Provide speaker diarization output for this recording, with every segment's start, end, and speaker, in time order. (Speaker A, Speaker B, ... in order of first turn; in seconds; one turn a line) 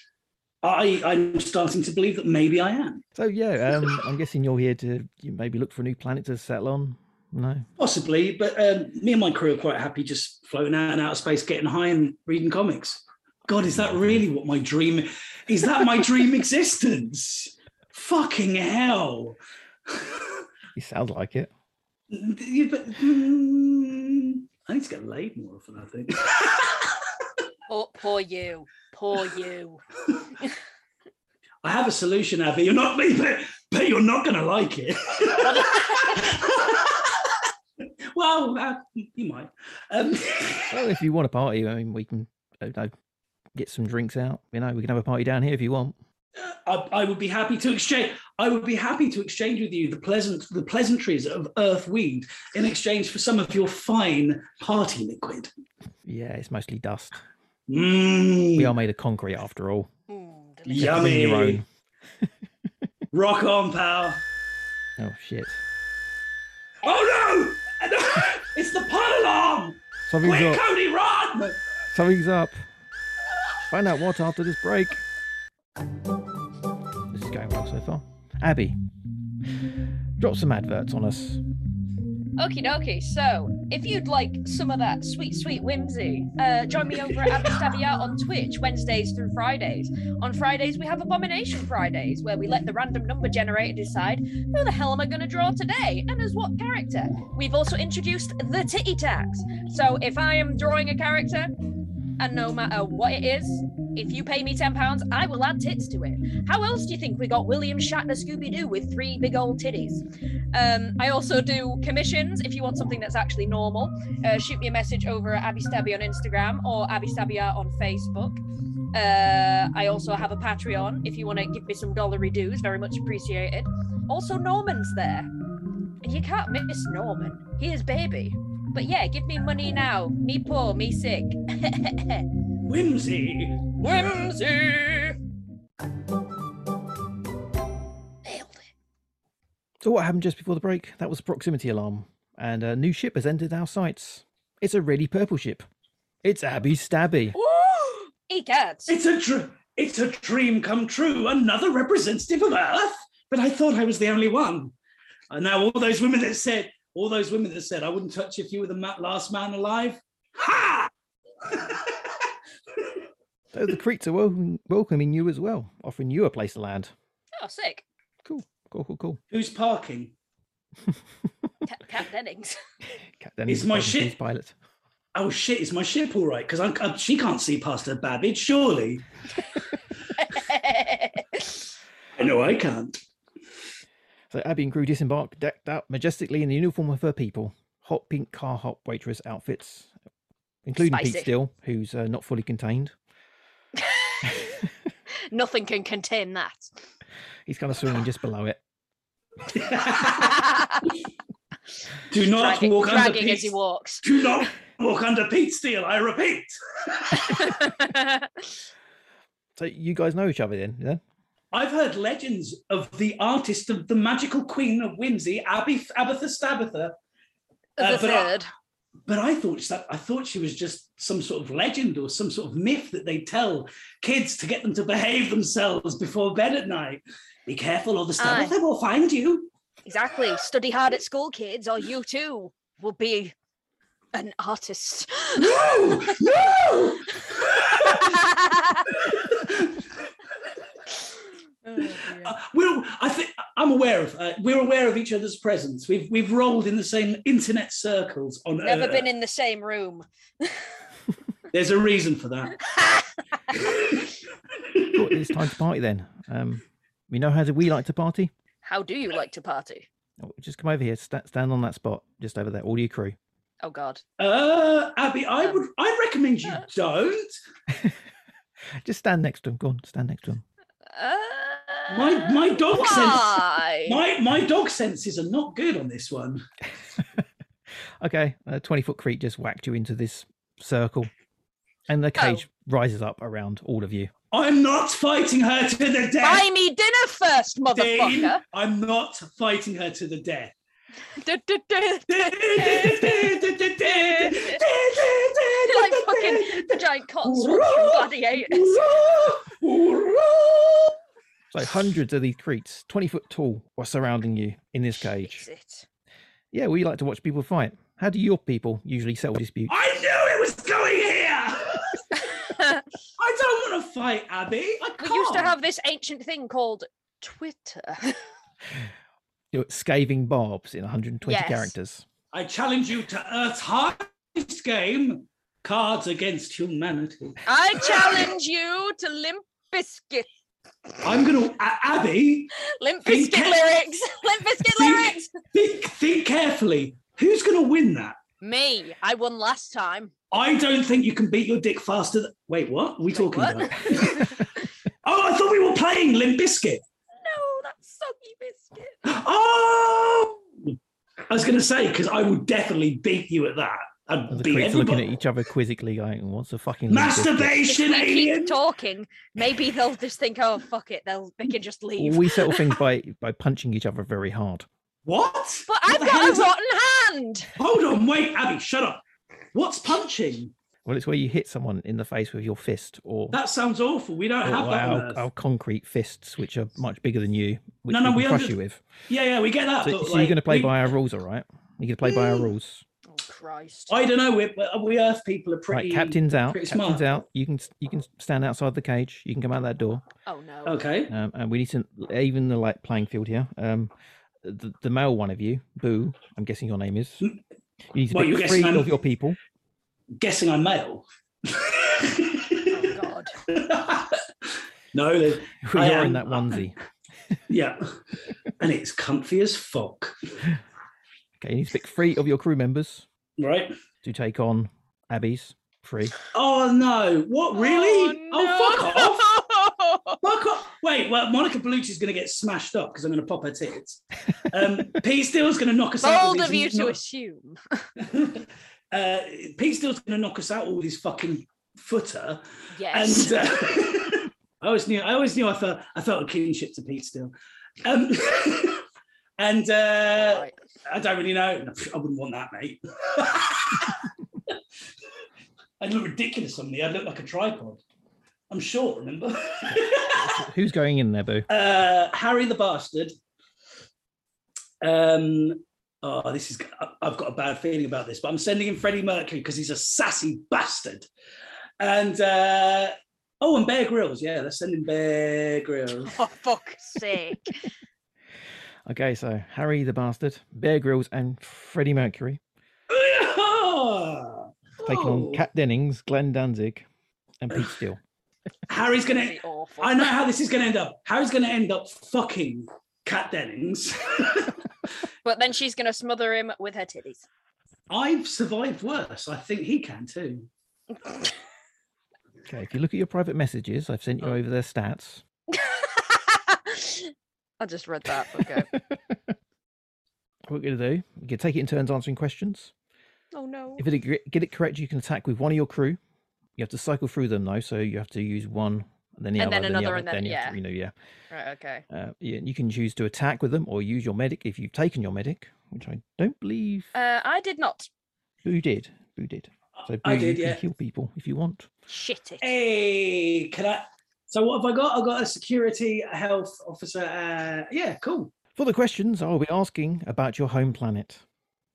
Speaker A: 0.6-3.0
Speaker B: 3.1-7.7
Speaker A: 7.8-20.4
Speaker B: 13.6-14.2
Speaker B: 20.8-21.5
Speaker A: 22.1-27.0
Speaker C: 27.7-29.8
Speaker A: 31.6-37.5
Speaker C: 35.4-36.4
Speaker A: 38.1-40.8
Speaker B: 40.7-42.9
Speaker B: 43.5-45.9
Speaker A: 46.4-55.5
Speaker B: 56.0-57.2
Speaker A: 57.7-58.7
Speaker B: 58.5-59.9
Speaker C: 60.1-61.0
Speaker A: 60.7-61.6
Speaker B: 60.7-61.6
Speaker A: 63.1-64.2
Speaker B: 65.0-65.6
Speaker A: 66.8-71.6
Speaker B: 70.1-70.6
Speaker B: 71.9-72.6
Speaker B: 73.7-75.0
Speaker B: 77.1-78.8
Speaker B: 80.2-81.4
Speaker C: 82.4-101.5
Speaker C: 102.2-118.4
Speaker C: 118.9-125.3
Speaker C: 126.0-132.2
Speaker A: 132.7-133.9
Speaker C: 133.8-135.2
Speaker C: 138.2-138.6
Speaker B: 139.8-145.6
Speaker B: 146.2-147.3
Speaker C: 147.3-148.9
Speaker A: 148.9-154.7
Speaker A: 155.3-160.9
Speaker A: 161.4-162.2
Speaker B: 163.5-166.9
Speaker C: 167.4-167.8
Speaker B: 168.2-169.2
Speaker A: 169.3-170.1
Speaker C: 171.7-172.6
Speaker B: 173.2-174.6
Speaker A: 173.5-174.2
Speaker A: 175.1-179.1
Speaker C: 180.2-181.6
Speaker A: 182.2-183.0
Speaker B: 184.3-189.9
Speaker B: 190.6-192.9
Speaker C: 190.8-191.3
Speaker C: 193.8-194.5
Speaker C: 195.3-196.7
Speaker B: 197.5-198.6
Speaker A: 199.5-200.4
Speaker C: 200.1-200.9
Speaker A: 202.1-207.5
Speaker C: 202.2-204.4
Speaker C: 207.2-208.5
Speaker B: 209.6-211.0
Speaker A: 211.5-216.9
Speaker C: 217.8-218.5
Speaker A: 217.8-218.4
Speaker A: 219.1-229.5
Speaker C: 228.2-228.6
Speaker C: 229.8-233.3
Speaker C: 234.1-236.1
Speaker A: 235.3-238.2
Speaker C: 237.2-238.9
Speaker A: 238.9-239.9
Speaker C: 241.6-242.3
Speaker A: 241.8-249.1
Speaker C: 248.6-250.6
Speaker A: 251.5-252.6
Speaker C: 252.6-253.1
Speaker A: 253.6-254.0
Speaker A: 254.7-255.1
Speaker B: 254.9-258.3
Speaker C: 258.6-259.9
Speaker B: 260.2-263.1
Speaker C: 263.6-264.0
Speaker A: 264.2-267.4
Speaker B: 268.8-270.4
Speaker C: 270.9-274.0
Speaker A: 271.9-276.4
Speaker B: 278.0-281.1
Speaker B: 281.9-284.1
Speaker C: 282.1-282.4
Speaker A: 284.3-286.4
Speaker C: 286.2-288.4
Speaker A: 287.7-290.5
Speaker C: 291.1-294.6
Speaker A: 292.1-301.0
Speaker C: 295.7-298.8
Speaker B: 301.5-305.4
Speaker C: 305.2-305.9
Speaker B: 306.5-309.8
Speaker A: 309.7-312.2
Speaker C: 312.4-312.8
Speaker A: 313.2-315.6
Speaker C: 315.0-318.2
Speaker B: 319.5-322.1
Speaker C: 321.2-321.7
Speaker A: 322.3-328.3
Speaker C: 327.4-330.3
Speaker A: 331.0-333.7
Speaker C: 332.6-335.3
Speaker A: 334.7-338.2
Speaker C: 338.4-340.1
Speaker A: 340.3-344.4
Speaker C: 343.1-344.6
Speaker A: 345.0-346.8
Speaker C: 347.2-349.0
Speaker A: 349.0-350.8
Speaker A: 351.3-355.1
Speaker B: 354.3-357.6
Speaker A: 356.9-358.6
Speaker C: 357.7-362.8
Speaker B: 362.0-364.7
Speaker A: 365.0-366.5
Speaker C: 365.7-367.5
Speaker A: 367.6-369.0
Speaker A: 369.5-370.5
Speaker B: 370.9-373.4
Speaker A: 373.3-375.2
Speaker B: 374.4-378.8
Speaker A: 377.9-378.6
Speaker A: 379.1-380.8
Speaker B: 379.8-382.8
Speaker C: 383.1-383.9
Speaker A: 383.9-387.2
Speaker B: 385.7-390.0
Speaker C: 390.2-390.8
Speaker A: 390.6-391.1
Speaker B: 391.1-393.9
Speaker B: 394.4-397.2
Speaker B: 397.9-399.4
Speaker A: 398.1-399.0
Speaker A: 400.2-406.6
Speaker C: 402.7-403.3
Speaker B: 405.6-406.8
Speaker A: 407.5-407.9
Speaker A: 408.6-410.4
Speaker B: 411.4-413.1
Speaker A: 413.4-413.7
Speaker B: 414.0-416.1
Speaker A: 416.3-419.3
Speaker C: 417.5-420.2
Speaker A: 420.2-427.0
Speaker C: 426.0-427.9
Speaker A: 428.0-438.8
Speaker C: 432.7-433.6
Speaker A: 439.4-444.5
Speaker C: 440.1-440.6
Speaker A: 445.8-447.8
Speaker A: 448.5-450.4
Speaker B: 449.8-451.5
Speaker A: 451.5-453.1
Speaker A: 454.8-461.1
Speaker A: 461.8-466.1
Speaker C: 466.0-467.5
Speaker B: 468.9-472.4
Speaker A: 472.9-475.4
Speaker B: 474.8-476.9
Speaker B: 477.4-478.0
Speaker A: 478.7-484.6
Speaker C: 479.0-480.1
Speaker C: 485.2-487.2
Speaker A: 487.9-490.5
Speaker B: 492.4-495.2
Speaker C: 495.5-498.7
Speaker B: 498.5-499.3
Speaker B: 500.5-502.7
Speaker C: 503.3-503.8
Speaker B: 503.8-506.0
Speaker B: 506.6-510.9
Speaker C: 509.4-510.6
Speaker C: 511.3-511.8
Speaker B: 511.9-516.9
Speaker C: 516.9-517.9
Speaker B: 518.4-521.7
Speaker A: 519.8-520.6
Speaker C: 521.9-522.5
Speaker A: 522.4-528.3
Speaker B: 528.5-531.2